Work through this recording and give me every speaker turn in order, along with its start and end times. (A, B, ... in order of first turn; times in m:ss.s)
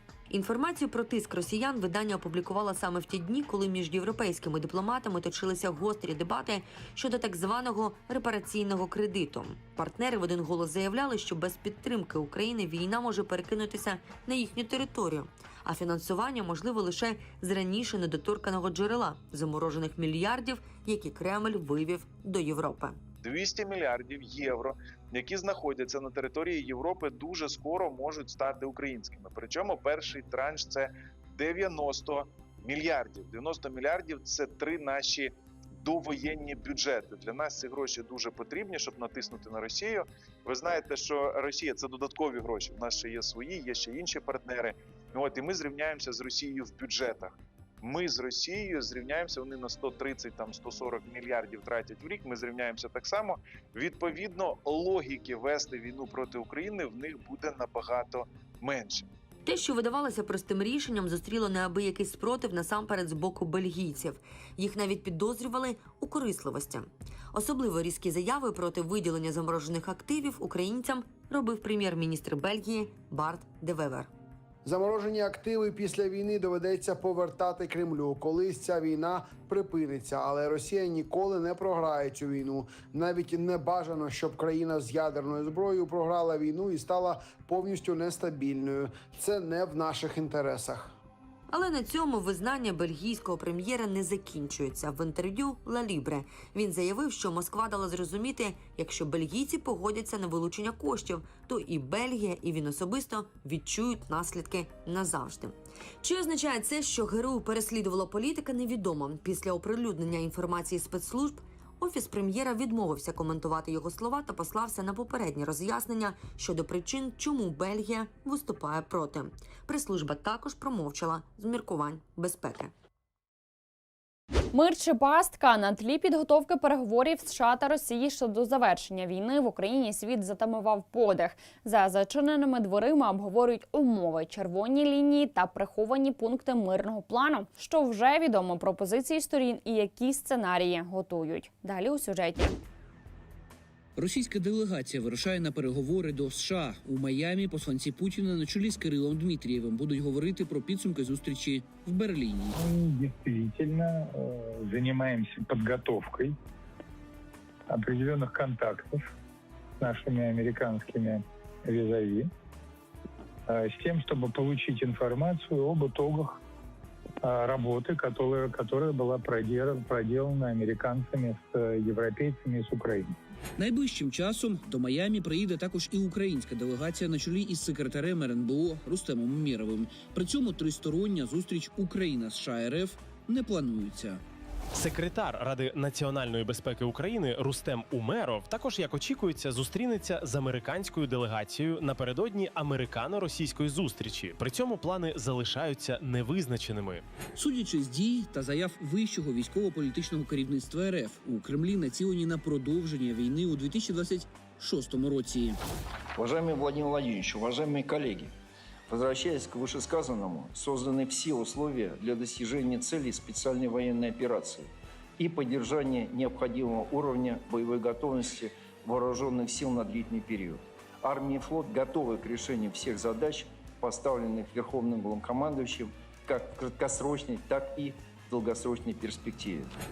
0:00.3-0:23.0 A
0:23.2-0:59.1 B
0:59.4-1:14.1 A
1:14.6-1:30.9 C
1:31.5-2:02.7 A
2:04.5-2:22.6 D
2:24.0-2:32.6 E
2:32.6-2:36.4 F
2:37.7-2:39.0 F
2:39.8-2:42.3 F
2:43.5-2:46.4 F
2:47.2-2:53.2 F
2:53.6-3:04.2 E
3:04.8-3:17.0 G
3:17.3-3:25.6 E
3:26.2-3:28.3 H
3:28.9-3:49.7 H